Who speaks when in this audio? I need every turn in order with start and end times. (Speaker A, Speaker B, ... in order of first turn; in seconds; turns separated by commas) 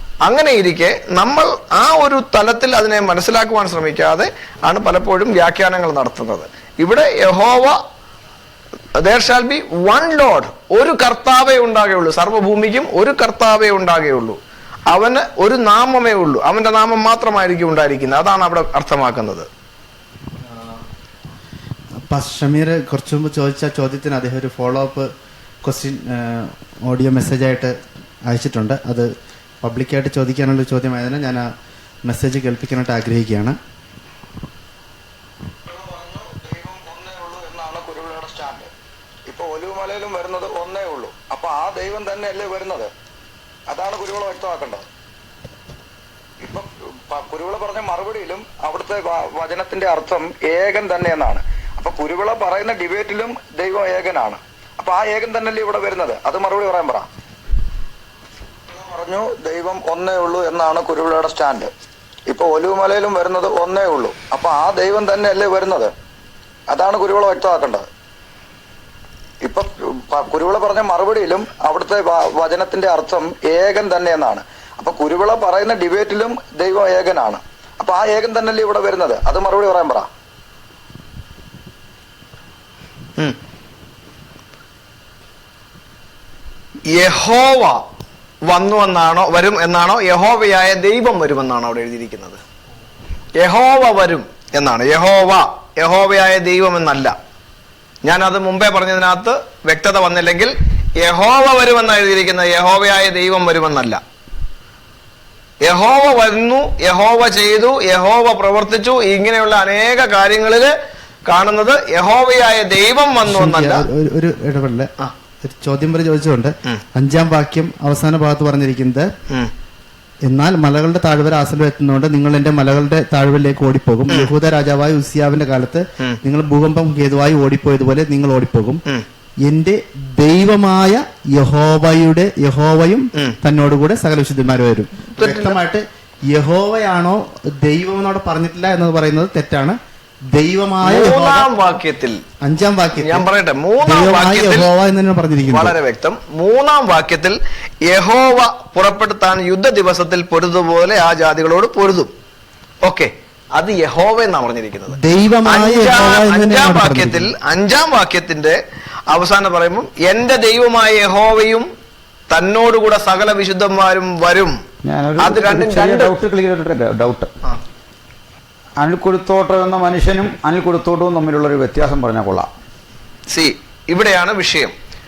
Speaker A: 0.2-7.8, Speaker A: 9.0-14.4, Speaker A: 14.9-19.5, Speaker B: 22.1-25.1, Speaker B: 25.6-27.8, Speaker B: 28.3-29.1, Speaker B: 29.6-31.5, Speaker B: 32.0-33.6, Speaker C: 35.7-38.7, Speaker C: 39.3-42.9, Speaker C: 43.7-44.9, Speaker C: 46.4-57.1, Speaker C: 58.7-61.7, Speaker C: 62.3-65.9, Speaker C: 66.7-67.9, Speaker C: 69.4-80.1, Speaker A: 86.9-87.8, Speaker A: 88.5-92.4, Speaker A: 93.4-97.1, Speaker A: 98.0-104.0, Speaker A: 105.6-110.7, Speaker A: 111.2-113.8, Speaker B: 113.2-114.9, Speaker B: 115.4-119.1, Speaker B: 120.2-128.8, Speaker B: 129.4-139.8, Speaker A: 135.2-135.6, Speaker B: 140.3-141.5, Speaker A: 140.8-142.2, Speaker B: 142.4-143.2, Speaker A: 143.0-144.7, Speaker B: 143.8-145.7, Speaker A: 145.5-152.1, Speaker A: 152.8-158.6, Speaker B: 154.9-157.3, Speaker A: 159.1-161.7, Speaker A: 162.3-164.6, Speaker D: 164.8-167.3, Speaker A: 165.2-166.1, Speaker D: 168.8-172.5, Speaker A: 173.3-174.7